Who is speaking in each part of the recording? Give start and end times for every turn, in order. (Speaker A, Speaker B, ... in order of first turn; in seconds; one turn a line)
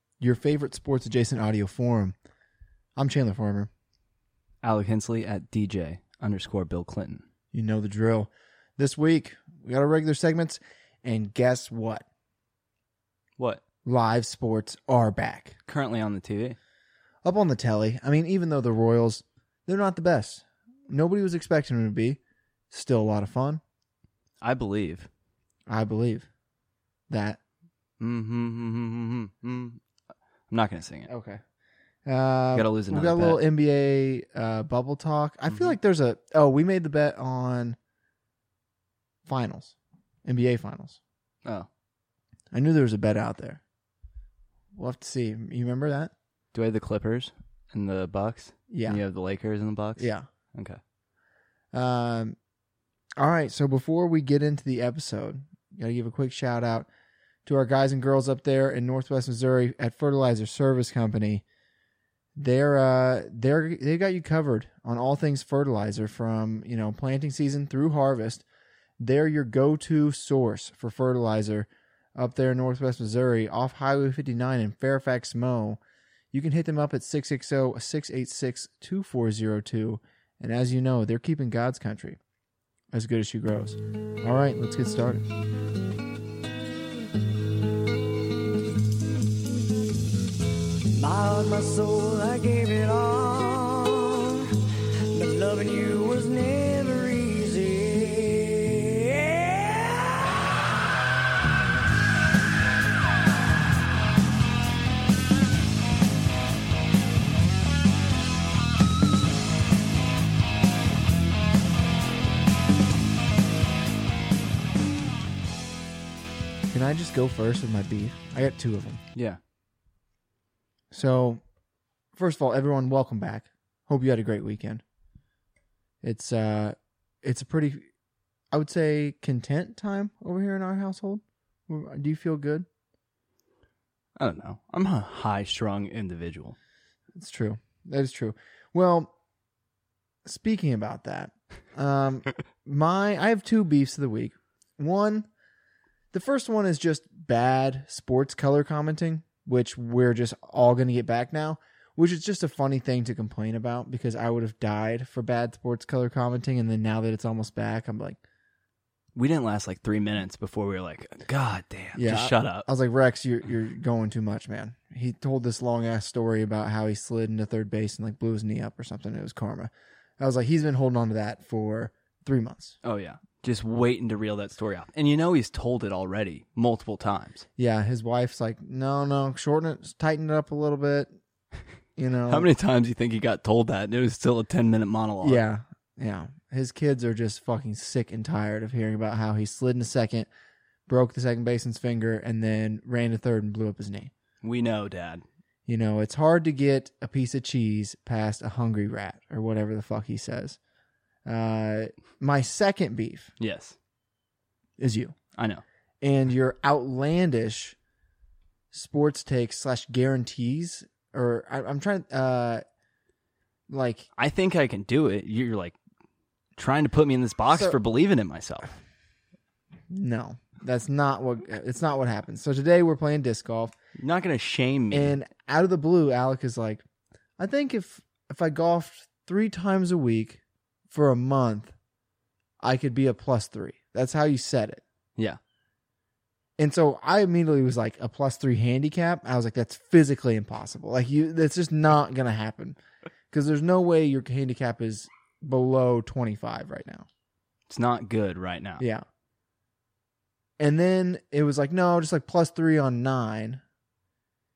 Speaker A: 0.2-2.2
Speaker A: 3.0-3.7
Speaker B: 4.6-7.2
Speaker A: 7.5-12.1
Speaker A: 13.8-15.6
Speaker B: 15.7-16.6
Speaker A: 17.2-22.2
Speaker A: 22.7-23.6
Speaker B: 24.4-25.1
Speaker A: 25.7-26.3
Speaker A: 27.1-27.4
Speaker B: 28.0-29.8
Speaker B: 30.5-31.1
Speaker A: 31.1-31.4
Speaker A: 32.1-37.8
Speaker B: 32.5-33.4
Speaker B: 35.5-35.8
Speaker A: 39.3-41.0
Speaker A: 42.5-43.6
Speaker A: 44.8-46.1
Speaker B: 46.5-50.8
Speaker A: 48.7-49.0
Speaker A: 50.0-50.3
Speaker A: 51.7-52.4
Speaker A: 53.2-56.9
Speaker A: 57.5-61.5
Speaker A: 62.4-68.4
Speaker A: 69.0-75.8
Speaker A: 76.3-82.2
Speaker A: 82.9-85.2
Speaker C: 91.0-94.5
Speaker C: 95.1-100.1
Speaker A: 116.7-119.0
Speaker B: 119.2-119.4
Speaker A: 120.9-121.4
Speaker A: 122.2-124.8
Speaker A: 126.0-127.9
Speaker A: 128.5-132.7
Speaker B: 134.2-136.6
Speaker A: 137.2-139.1
Speaker A: 140.2-145.3
Speaker A: 146.1-158.2
Speaker B: 159.2-162.7
Speaker A: 161.9-172.8
Speaker B: 172.8-177.4
Speaker A: 177.6-181.1
Speaker A: 182.0-182.5
Speaker B: 182.3-185.4
Speaker A: 185.2-190.3
Speaker A: 190.9-194.1
Speaker B: 194.4-195.2
Speaker A: 195.7-200.6
Speaker A: 201.3-203.3
Speaker B: 203.4-203.8
Speaker A: 204.8-205.2
Speaker B: 205.4-205.6
Speaker A: 206.0-207.8
Speaker A: 208.7-212.6
Speaker A: 213.7-214.1
Speaker B: 214.2-215.8
Speaker B: 216.6-218.7
Speaker A: 219.9-223.7
Speaker B: 224.0-225.2
Speaker A: 224.9-226.8
Speaker A: 227.4-230.4
Speaker A: 230.9-231.7
Speaker A: 232.6-234.8
Speaker A: 236.6-242.8
Speaker A: 243.3-247.1
Speaker B: 247.7-248.8
Speaker A: 248.8-249.1
Speaker A: 250.6-253.6